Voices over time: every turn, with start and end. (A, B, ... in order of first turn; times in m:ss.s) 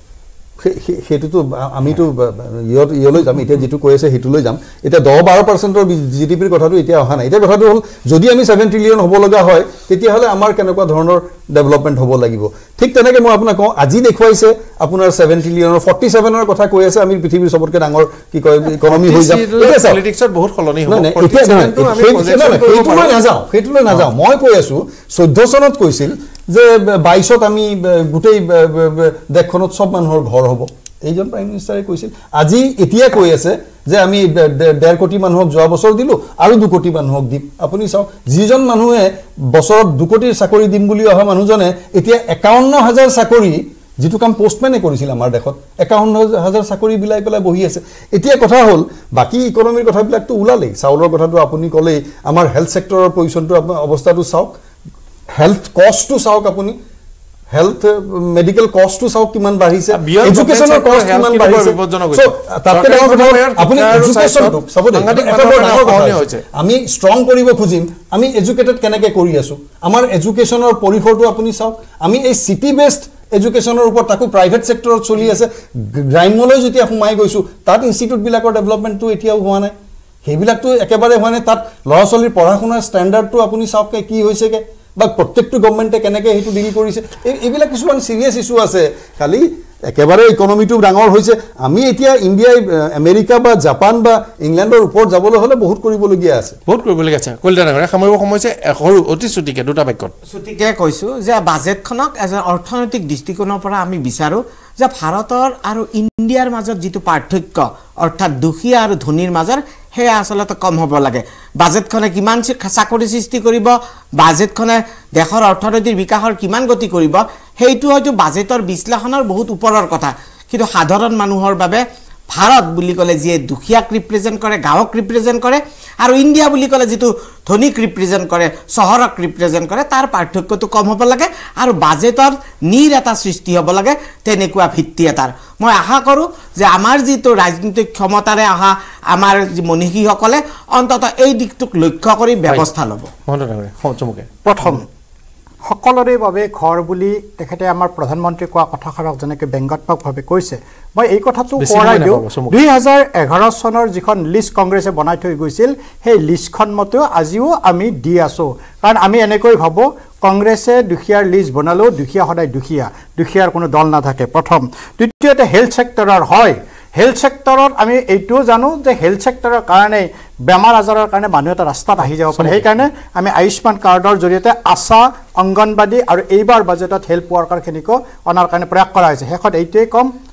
0:00.6-0:20.0 A
0:18.8-0:23.2 B
0:20.9-0:54.6 A
0:55.3-0:56.8 A
0:57.5-1:36.6 A
0:59.9-1:06.4 B
1:36.7-1:40.1 B
1:40.3-2:23.1 C
2:23.3-2:24.8 B
2:24.4-2:24.8 D
2:25.6-3:00.1 D
2:31.6-2:32.6 B
2:52.4-2:52.6 B